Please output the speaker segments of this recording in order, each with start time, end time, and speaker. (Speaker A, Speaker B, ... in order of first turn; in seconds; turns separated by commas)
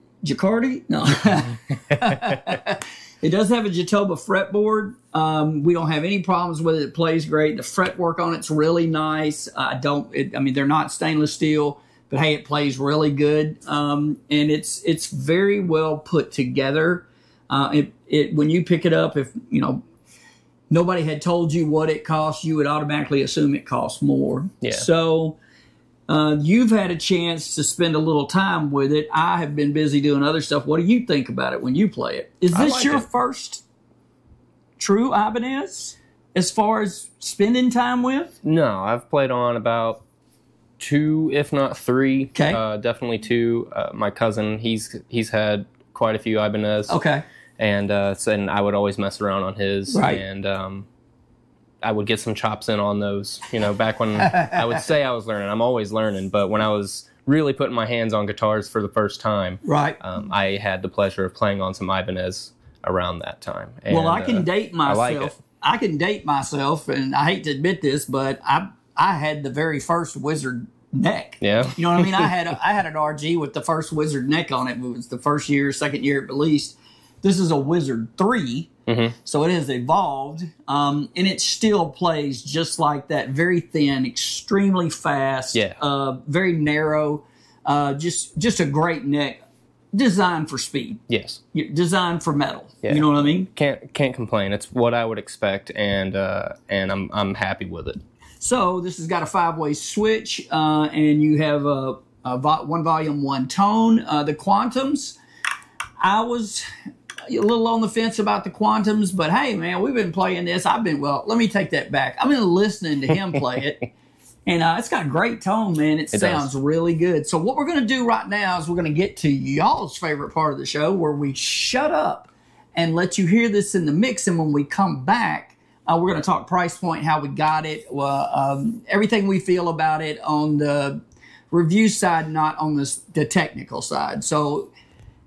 Speaker A: 0.2-19.8, Speaker A: 20.7-25.4, Speaker A: 26.1-33.6, Speaker B: 32.5-33.0, Speaker A: 34.8-38.4, Speaker B: 38.4-40.0, Speaker B: 40.8-47.0, Speaker A: 42.3-42.6, Speaker A: 46.9-47.2, Speaker B: 47.6-50.9, Speaker A: 49.9-50.2, Speaker B: 51.8-65.3, Speaker A: 54.2-54.6, Speaker A: 59.6-60.0, Speaker A: 63.9-78.7, Speaker B: 71.4-72.3, Speaker B: 78.9-79.1, Speaker A: 79.2-89.4, Speaker A: 89.9-91.0, Speaker B: 91.1-91.4, Speaker A: 91.5-93.5, Speaker B: 92.8-98.0, Speaker A: 98.4-105.2, Speaker A: 106.0-106.6, Speaker A: 107.3-113.9, Speaker A: 114.5-134.7, Speaker B: 116.1-116.5